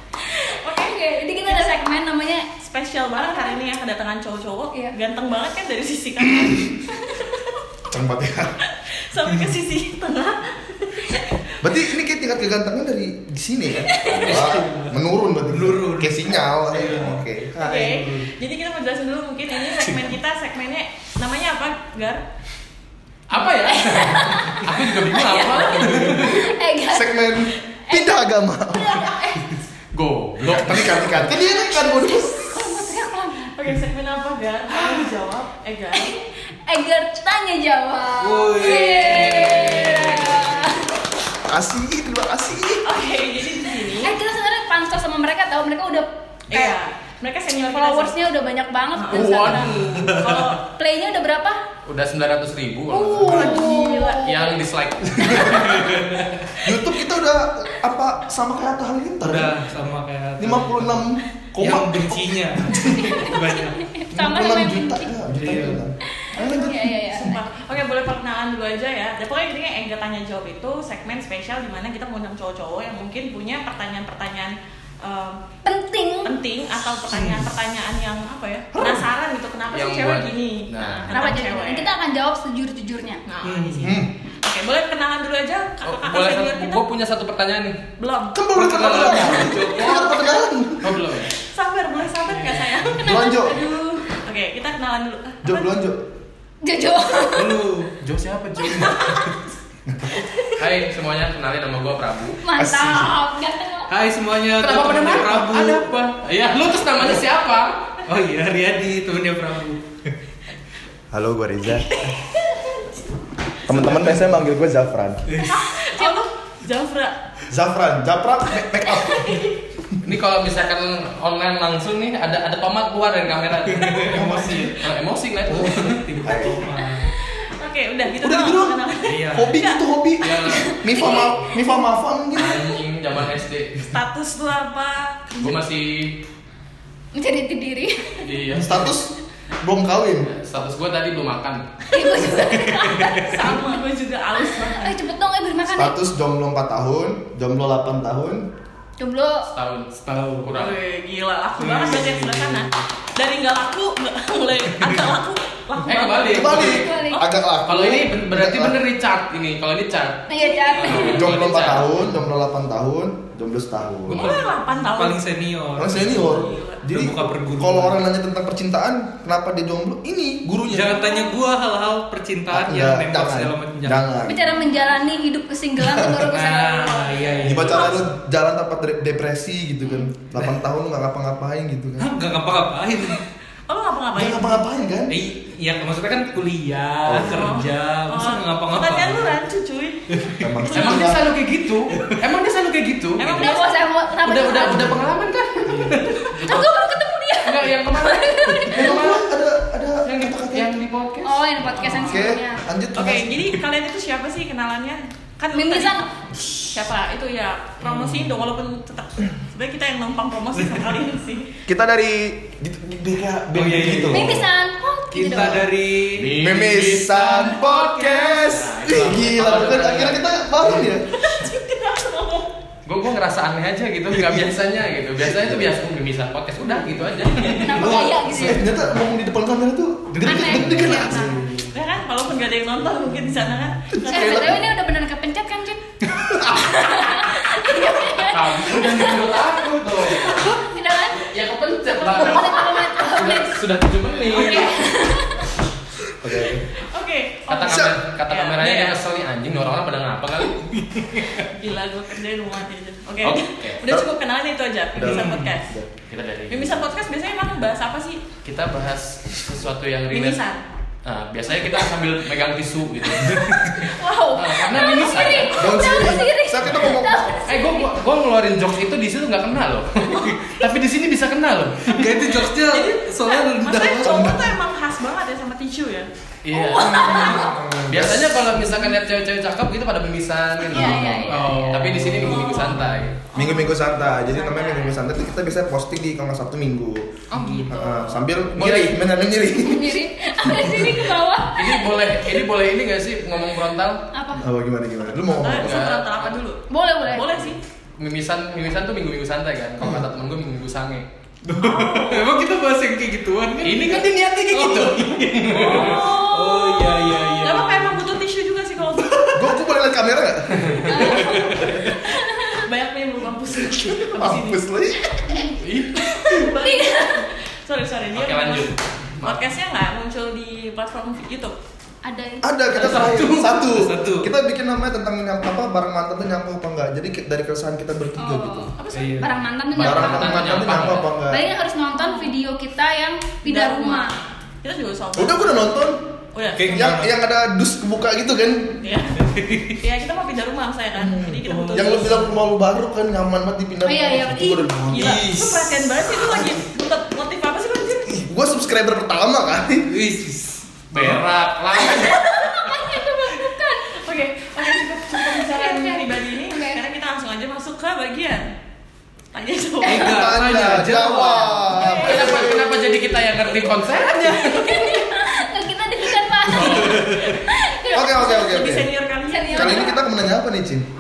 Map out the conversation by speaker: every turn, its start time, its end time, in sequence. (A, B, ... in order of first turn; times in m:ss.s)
0:00.5-0:01.8 A
0:00.6-0:02.5 B
0:02.6-0:07.5 A
0:03.2-0:03.6 B
0:06.3-0:06.7 C
0:07.9-0:08.6 C
0:08.6-0:11.8 A
0:11.6-0:18.0 C
0:13.8-0:14.3 B
0:14.2-0:17.2 D
0:17.6-0:22.3 A
0:17.9-0:18.3 D
0:19.7-0:20.0 D
0:23.3-0:26.4 E
0:23.6-0:29.6 B
0:25.8-0:26.3 D
0:26.9-0:29.1 C
0:29.9-0:31.2 E
0:30.4-0:33.0 C
0:31.1-0:33.6 B
0:33.6-0:36.2 A
0:34.7-0:35.0 D
0:36.0-0:41.0 B
0:38.2-0:40.6 D
0:38.6-0:40.4 A
0:41.4-0:43.0 C
0:42.8-0:44.2 A
0:43.9-0:46.8 B
0:46.5-0:48.1 A
0:47.6-0:49.8 B
0:48.9-0:50.6 A
0:49.1-0:50.4 E
0:49.1-0:49.9 C
0:50.0-0:50.4 D
0:50.6-0:51.6 B
0:51.8-0:55.9 E
0:52.9-0:54.6 B
0:53.2-0:54.5 A
0:53.2-0:53.7 C
0:55.1-0:59.6 C
0:55.7-0:56.6 D
0:59.2-1:03.8 D
1:00.4-1:03.3 C
1:02.9-1:05.1 B
1:04.1-1:07.3 C
1:05.3-1:05.8 D
1:06.2-1:07.4 B
1:06.5-1:15.4 A
1:15.6-1:16.3 B
1:16.2-1:21.9 A
1:17.1-1:17.5 D
1:18.7-1:19.0 C
1:19.7-1:21.2 E
1:20.8-1:23.2 B
1:23.2-1:26.8 A
1:23.4-1:24.0 D
1:23.8-1:24.1 C
1:25.8-1:27.8 E
1:28.0-1:28.4 A
1:28.3-1:31.0 C
1:28.5-1:30.1 D
1:28.7-1:29.6 E
1:29.6-1:30.4 A
1:30.8-1:31.3 E
1:31.3-1:35.7 A
1:32.4-1:33.0 D
1:33.0-1:33.7 C
1:35.4-1:36.0 C
1:36.6-1:37.6 B
1:37.3-1:37.9 D
1:38.0-1:39.3 E
1:38.8-1:39.3 A
1:39.9-1:40.3 C
1:40.6-1:42.4 E
1:42.4-1:43.9 B
1:42.6-1:43.2 C
1:43.9-1:45.9 D
1:44.6-1:48.0 E
1:48.0-1:49.8 D
1:51.1-1:52.0 C
1:51.8-1:53.0 A
1:53.7-1:55.2 C
1:53.7-1:54.2 D
1:55.3-1:55.7 D
1:55.4-1:57.2 A
1:57.5-1:59.5 C
1:58.8-1:59.6 A
2:00.0-2:06.0 E
2:03.7-2:04.9 D
2:04.1-2:04.7 C
2:05.5-2:06.6 C
2:05.5-2:07.1 D
2:07.2-2:09.8 A
2:08.2-2:12.7 C
2:09.0-2:09.6 D
2:10.2-2:10.8 E
2:10.4-2:11.6 B
2:12.3-2:13.9 E
2:13.9-2:15.6 A
2:15.4-2:16.2 E
2:17.1-2:18.3 B
2:18.2-2:18.9 E
2:18.5-2:20.3 C
2:20.2-2:21.6 E
2:21.9-2:23.8 B
2:22.5-2:23.3 D
2:23.1-2:25.0 A
2:24.6-2:26.0 B
2:25.6-2:28.5 C
2:29.0-2:29.5 B
2:29.5-2:30.8 E
2:30.1-2:30.6 D
2:30.5-2:36.7 A
2:31.6-2:32.9 D
2:34.7-2:35.1 D
2:35.9-2:41.9 E
2:36.3-2:38.8 C
2:36.5-2:37.3 B
2:40.3-2:41.4 B
2:40.4-2:41.2 A
2:41.1-2:44.3 C
2:44.1-2:48.0 D
2:44.1-2:45.2 A
2:45.8-2:51.2 C
2:46.1-2:46.9 A
2:50.7-2:54.1 D
2:52.5-2:54.6 C
2:54.2-2:57.1 B
2:54.6-2:55.0 A
2:55.8-2:56.4 C
2:56.3-2:58.0 D
2:56.7-2:58.0 A
2:57.4-3:02.1 C
3:02.0-3:03.2 D
3:03.7-3:04.7 A
3:04.1-3:05.1 C
3:05.1-3:09.4 D
3:07.0-3:07.4 C
3:07.2-3:11.2 A
3:10.1-3:10.5 D
3:10.4-3:11.2 C
3:10.7-3:13.6 E
3:11.9-3:12.2 D
3:13.2-3:13.8 A
3:13.3-3:15.0 B
3:14.2-3:16.8 E
3:15.7-3:16.1 D
3:16.4-3:19.0 B
3:17.4-3:19.2 E
3:18.7-3:20.7 C
3:20.0-3:22.0 E
3:21.2-3:22.6 B
3:21.6-3:22.2 D
3:22.0-3:23.5 C
3:22.9-3:26.1 A
3:25.5-3:26.1 B
3:26.4-3:26.7 C
3:26.7-3:31.6 A
3:27.8-3:28.4 D
3:31.7-3:34.5 C
3:33.5-3:34.4 D
3:34.1-3:35.7 B
3:35.1-3:36.4 D
3:36.1-3:40.3 E
3:36.4-3:41.1 C
3:37.1-3:38.1 D
3:40.6-3:41.0 D
3:41.1-3:42.5 A
3:42.8-3:47.9 E
3:45.2-3:45.7 C
3:47.6-3:48.7 B
3:47.7-3:49.0 D
3:47.8-3:51.5 C
3:50.1-3:51.8 D
3:50.2-3:51.3 B
3:50.8-3:54.6 A
3:53.9-3:54.8 C
3:54.1-3:55.8 B
3:56.3-3:56.8 C
3:56.4-3:59.6 B
3:58.2-4:00.6 E
4:00.2-4:01.3 B
4:01.2-4:04.8 E
4:01.9-4:03.6 B
4:04.3-4:05.5 B
4:04.4-4:04.7 A
4:06.0-4:06.7 C
4:06.8-4:09.0 A
4:07.5-4:10.8 E
4:07.6-4:08.0 C
4:10.8-4:11.5 D
4:11.4-4:15.7 A
4:13.2-4:13.9 E
4:14.9-4:15.9 C
4:15.0-4:15.6 D
4:16.1-4:16.9 E
4:16.5-4:18.2 A
4:18.4-4:20.4 E
4:20.1-4:20.6 A
4:21.0-4:25.8 E
4:23.2-4:23.8 D
4:23.6-4:25.5 A
4:24.6-4:27.9 B
4:25.6-4:27.4 C
4:27.4-4:32.2 E
4:30.3-4:30.5 D
4:31.8-4:34.4 D
4:32.4-4:36.1 A
4:33.9-4:34.5 C
4:36.4-4:43.2 E
4:36.5-4:37.5 B
4:36.7-4:38.8 C
4:40.7-4:42.6 B
4:40.7-4:41.2 C
4:40.8-4:43.1 D
4:42.2-4:45.0 A
4:43.4-4:47.1 C
4:47.3-4:47.7 A
4:47.4-4:48.2 D
4:47.7-4:50.9 C
4:48.5-4:49.0 E
4:49.5-4:52.1 B
4:51.5-4:54.1 E
4:54.1-4:54.4 B
4:54.3-4:55.9 C
4:55.2-4:57.6 A
4:55.6-4:56.4 E
4:56.7-4:57.5 B
4:58.0-5:01.1 E
4:59.8-5:00.1 C
5:01.4-5:08.0 D
5:01.5-5:02.3 A
5:03.6-5:06.0 E
5:05.6-5:09.6 A
5:05.9-5:06.2 B
5:09.4-5:11.2 C
5:10.9-5:12.7 B
5:10.9-5:14.6 A
5:11.0-5:12.0 D
5:14.1-5:15.2 C
5:15.2-5:15.6 B
5:15.5-5:16.2 E
5:16.1-5:21.5 A
5:16.1-5:17.3 B
5:18.1-5:19.5 E
5:22.0-5:23.2 B
5:22.4-5:28.7 C
5:22.7-5:23.6 E
5:23.4-5:24.3 D
5:28.2-5:34.1 B
5:28.8-5:29.3 A
5:28.9-5:29.4 D
5:29.7-5:31.1 E
5:29.8-5:31.5 C
5:31.9-5:32.4 A
5:33.4-5:35.8 A
5:35.2-5:36.0 C
5:36.3-5:37.0 A
5:36.6-5:37.2 D
5:36.7-5:38.8 C
5:38.8-5:42.3 A
5:39.2-5:39.8 D
5:41.0-5:46.6 C
5:41.5-5:42.2 D
5:43.8-5:45.2 B
5:44.9-5:48.2 A
5:48.1-5:49.9 C
5:49.8-5:50.6 D
5:50.9-5:52.3 E
5:51.8-5:54.0 B
5:53.9-5:58.5 A
5:54.7-5:56.8 B
5:59.3-6:00.2 A
5:59.8-6:00.3 B
5:59.8-6:01.9 D
5:59.9-6:02.8 C
6:01.7-6:02.2 A
6:01.9-6:05.0 E
6:02.1-6:03.6 B
6:04.2-6:08.5 B
6:06.5-6:07.2 E
6:06.6-6:06.8 C
6:07.9-6:08.9 C
6:07.9-6:10.0 A
6:09.3-6:10.0 B
6:09.5-6:10.9 C